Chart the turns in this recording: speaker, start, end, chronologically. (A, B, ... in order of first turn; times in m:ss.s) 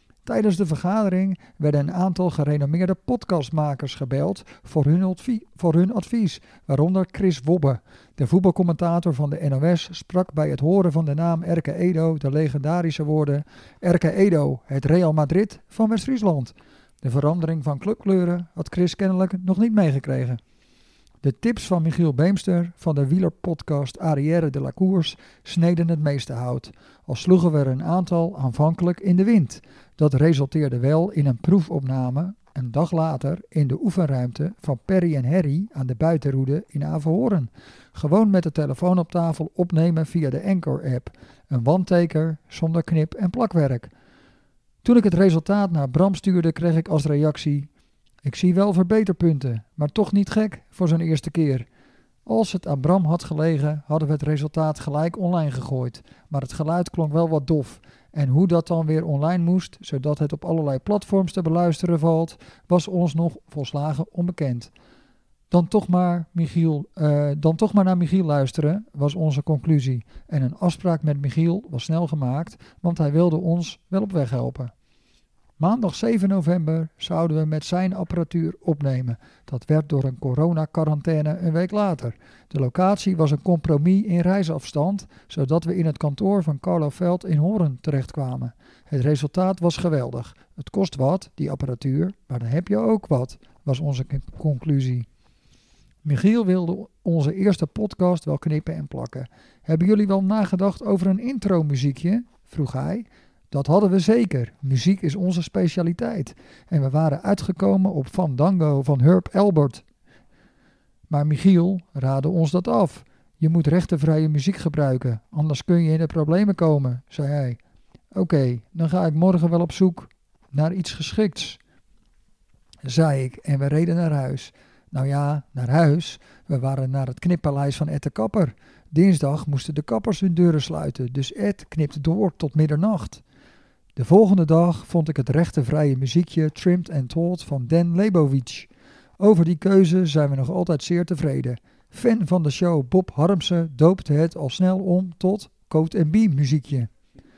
0:00.2-0:20.4 A
0:21.2-0:43.9 A
0:44.8-0:47.7 A
0:48.2-0:51.7 A
0:52.3-1:04.7 A
1:05.5-1:14.7 A
1:15.6-1:35.1 A
1:36.0-1:49.8 A
1:51.1-1:57.6 A
1:58.1-2:01.6 A
2:02.8-2:13.2 A
2:14.0-2:26.9 A